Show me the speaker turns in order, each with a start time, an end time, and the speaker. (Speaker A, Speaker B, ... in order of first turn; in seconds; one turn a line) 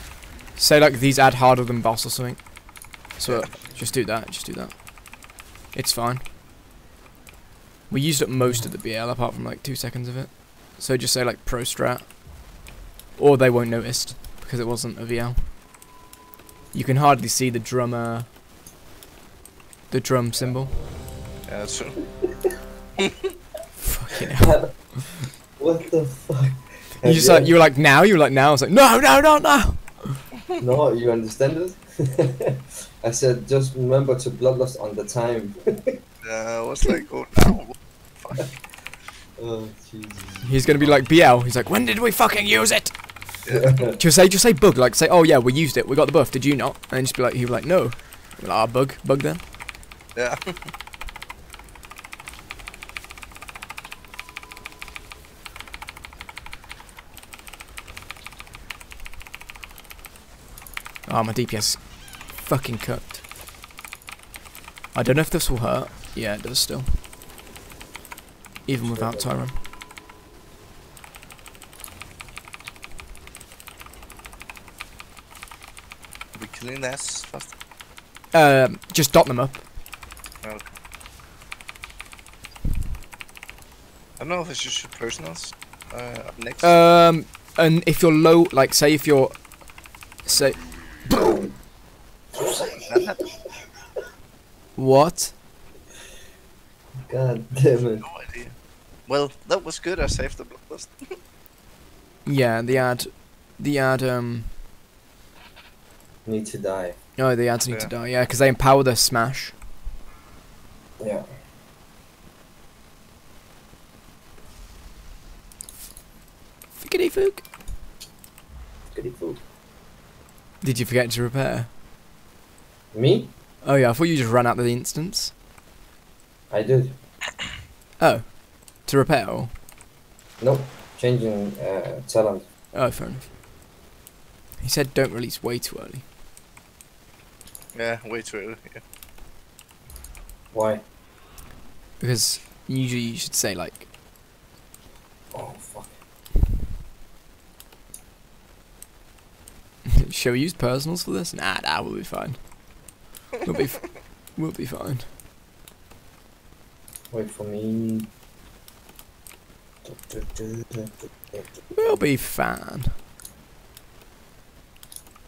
Speaker A: 0.6-6.2
Speaker A: 7.9-12.2
Speaker A: 13.2-15.5
Speaker A: 16.7-18.3
Speaker A: 19.9-20.7
Speaker B: 21.4-22.4
Speaker B: 23.0-23.3
Speaker A: 23.8-25.3
Speaker C: 24.4-27.6
Speaker A: 27.0-30.3
Speaker C: 30.6-36.0
Speaker B: 36.2-38.6
Speaker C: 39.4-40.6
Speaker A: 40.4-43.4
Speaker B: 43.4-43.9
Speaker C: 43.5-44.0
Speaker A: 44.0-49.4
Speaker B: 50.1-50.7
Speaker A: 61.0-63.2
Speaker A: 64.9-67.0
Speaker A: 68.7-69.6
Speaker C: 68.8-69.4
Speaker B: 76.3-77.5
Speaker A: 78.3-79.7
Speaker B: 80.4-80.7
Speaker B: 84.2-86.7
Speaker A: 86.6-91.1
Speaker C: 91.1-91.6
Speaker C: 92.3-92.8
Speaker B: 92.7-93.3
Speaker A: 94.8-95.3
Speaker C: 97.1-98.0
Speaker B: 98.0-101.2
Speaker A: 102.2-104.5
Speaker C: 106.2-107.0
Speaker A: 107.2-109.6
Speaker C: 111.0-111.3
Speaker A: 116.8-117.5
Speaker C: 118.9-119.4
Speaker A: 120.6-121.7
Speaker C: 122.9-123.3
Speaker A: 123.6-125.3
Speaker C: 126.5-127.0
Speaker A: 128.0-129.5
Speaker C: 130.4-132.4
Speaker A: 132.7-133.3
Speaker A: 134.6-136.0
Speaker B: 137.7-138.8
Speaker C: 140.5-140.8
Speaker A: 142.0-143.8
Speaker C: 145.3-146.0
Speaker A: 149.9-152.5
Speaker A: 153.4-155.1
Speaker C: 157.1-158.1
Speaker C: 159.8-162.0
Speaker A: 161.7-163.0